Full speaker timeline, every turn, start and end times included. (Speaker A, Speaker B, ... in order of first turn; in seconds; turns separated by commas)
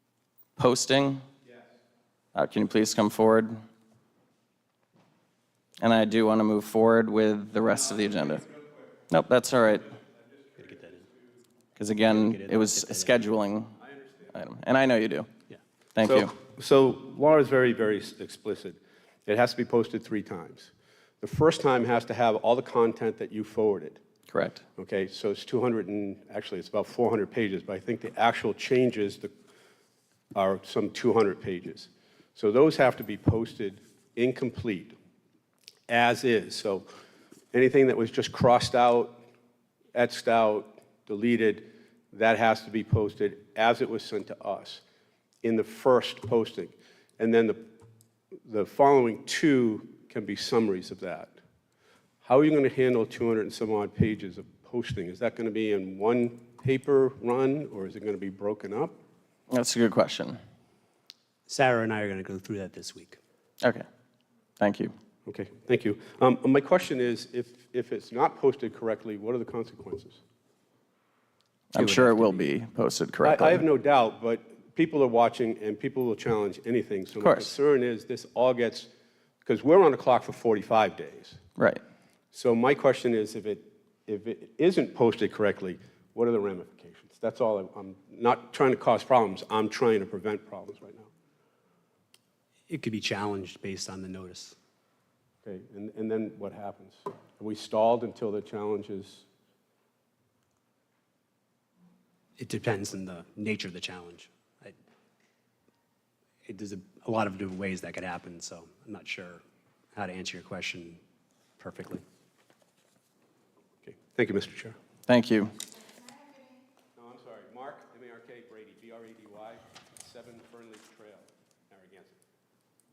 Speaker A: 0.6-1.2, Speaker B: 1.4-1.7, Speaker A: 2.4-3.5, Speaker A: 5.8-8.5, Speaker B: 8.3-8.7, Speaker A: 9.1-9.9, Speaker B: 9.9-11.0, Speaker C: 10.7-11.0, Speaker A: 11.8-13.8, Speaker C: 12.1-13.2, Speaker A: 14.3-15.3, Speaker A: 16.0-16.3, Speaker B: 16.0-24.0, Speaker A: 24.3-24.6, Speaker B: 24.8-29.3, Speaker B: 30.4-35.0, Speaker B: 35.9-36.9, Speaker B: 37.5-39.2, Speaker B: 40.0-44.8, Speaker B: 45.4-47.6, Speaker B: 48.5-51.4, Speaker B: 52.2-59.0, Speaker A: 59.5-60.4, Speaker C: 61.5-63.2, Speaker A: 64.6-64.9, Speaker B: 65.3-70.2, Speaker A: 71.7-73.6, Speaker C: 71.8-72.5, Speaker B: 73.2-78.9, Speaker A: 77.2-77.5, Speaker B: 79.4-81.4, Speaker A: 81.6-81.8, Speaker B: 82.3-91.1, Speaker C: 92.7-94.5, Speaker B: 95.4-99.3, Speaker C: 102.4-104.8, Speaker C: 106.5-109.4, Speaker C: 109.9-111.0, Speaker C: 111.6-112.0, Speaker B: 113.8-114.8, Speaker A: 115.1-115.5, Speaker B: 117.0-122.2